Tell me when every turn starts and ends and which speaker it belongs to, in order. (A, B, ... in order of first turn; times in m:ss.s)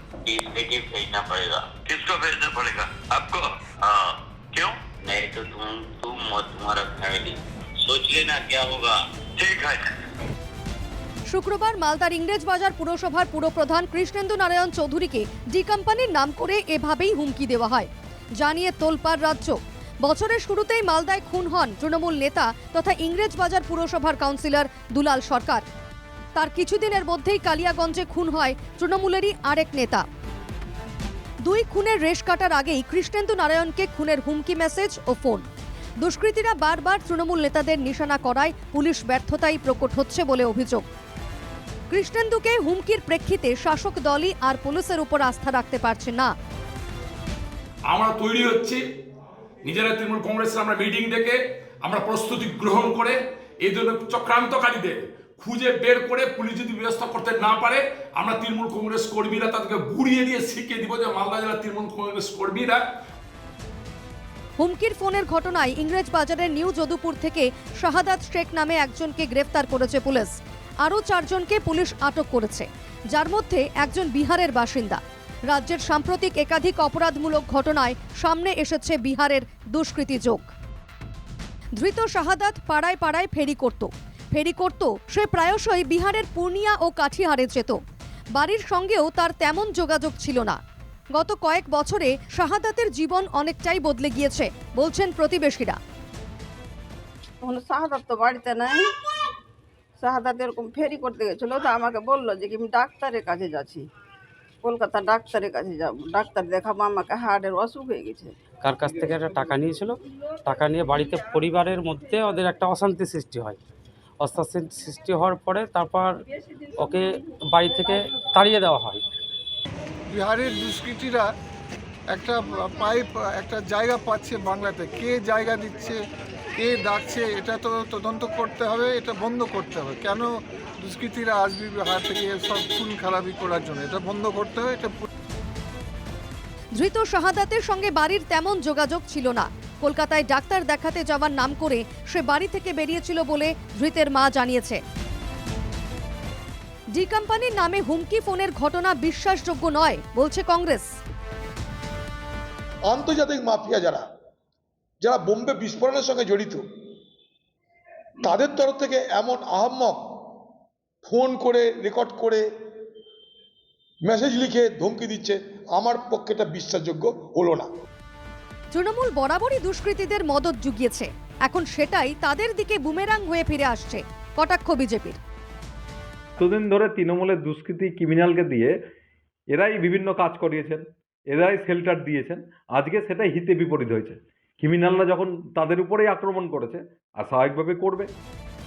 0:00.3-0:01.8 A
0:01.8-0:04.9 B
0:03.8-0:09.0 A
0:09.4-0:09.9 B
0:11.3-0:25.6 C
0:26.4-0:30.0 C
0:31.4-0:35.4 C
0:36.0-0:40.8 C
0:41.9-0:46.3 C
0:47.9-0:48.8 D
0:49.6-1:02.8 D
1:04.6-1:20.4 C
1:21.8-1:27.8 C
1:28.4-1:30.6 C
1:31.2-1:35.8 C
1:37.4-1:38.9 E
1:40.0-1:43.8 E
1:44.6-1:48.3 E
1:48.6-1:53.6 F
1:54.2-1:56.2 F
1:56.8-1:59.0 F
2:00.1-2:01.3 G
2:02.1-2:06.0 G
2:06.6-2:15.1 G
2:16.8-2:24.8 C
2:26.9-2:30.9 C
2:32.9-2:34.0 H
2:35.0-2:36.6 H
2:38.2-2:40.0 H
2:41.0-2:42.4 H
2:44.0-2:47.7 H
2:48.7-2:55.2 C
2:56.4-2:58.7 I
2:59.5-3:08.1 I